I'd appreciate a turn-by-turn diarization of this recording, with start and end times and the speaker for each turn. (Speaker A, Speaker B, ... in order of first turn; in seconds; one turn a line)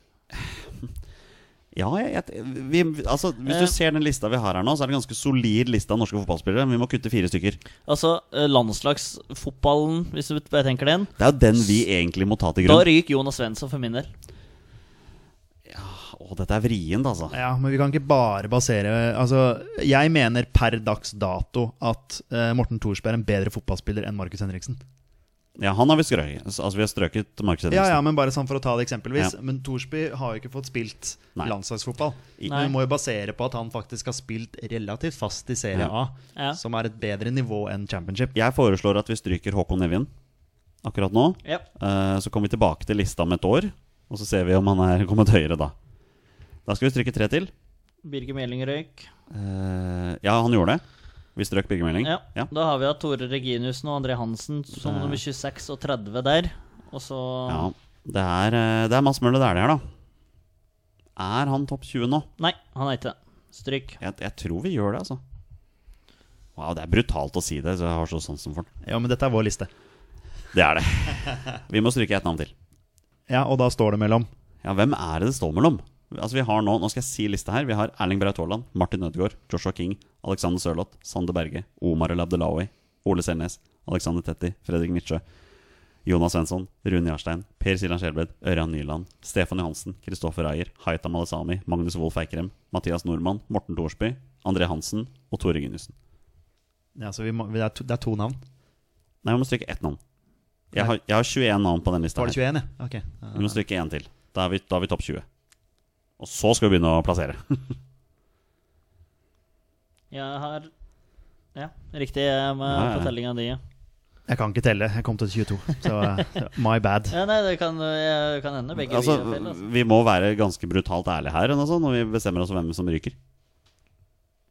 Speaker A: 0.4-0.8
Speaker A: 1.7-7.6
Speaker B: 3.5-3.7
Speaker B: 7.9-11.1
Speaker A: 11.2-12.9
Speaker B: 12.6-14.1
Speaker A: 15.7-17.4
Speaker C: 17.3-24.8
Speaker A: 25.6-28.0
Speaker C: 27.7-38.3
Speaker B: 32.5-32.7
Speaker A: 38.4-40.1
Speaker A: 40.8-45.7
Speaker A: 46.7-47.5
Speaker B: 48.0-49.1
Speaker A: 49.3-50.8
Speaker A: 51.4-52.5
Speaker B: 52.0-57.7
Speaker A: 54.8-55.2
Speaker A: 57.5-59.8
Speaker A: 61.2-62.3
Speaker B: 62.4-64.0
Speaker A: 64.0-65.2
Speaker A: 66.6-68.7
Speaker C: 68.8-69.7
Speaker A: 70.5-72.5
Speaker C: 73.3-74.3
Speaker A: 74.6-85.2
Speaker A: 86.0-96.0
Speaker C: 97.0-98.4
Speaker A: 99.2-100.0
Speaker A: 100.7-102.4
Speaker C: 102.2-103.6
Speaker A: 103.3-105.3
Speaker A: 106.2-107.8
Speaker B: 110.1-110.7
Speaker B: 111.5-113.6
Speaker A: 112.7-113.1
Speaker C: 114.3-117.2
Speaker B: 117.1-119.6
Speaker A: 118.8-123.2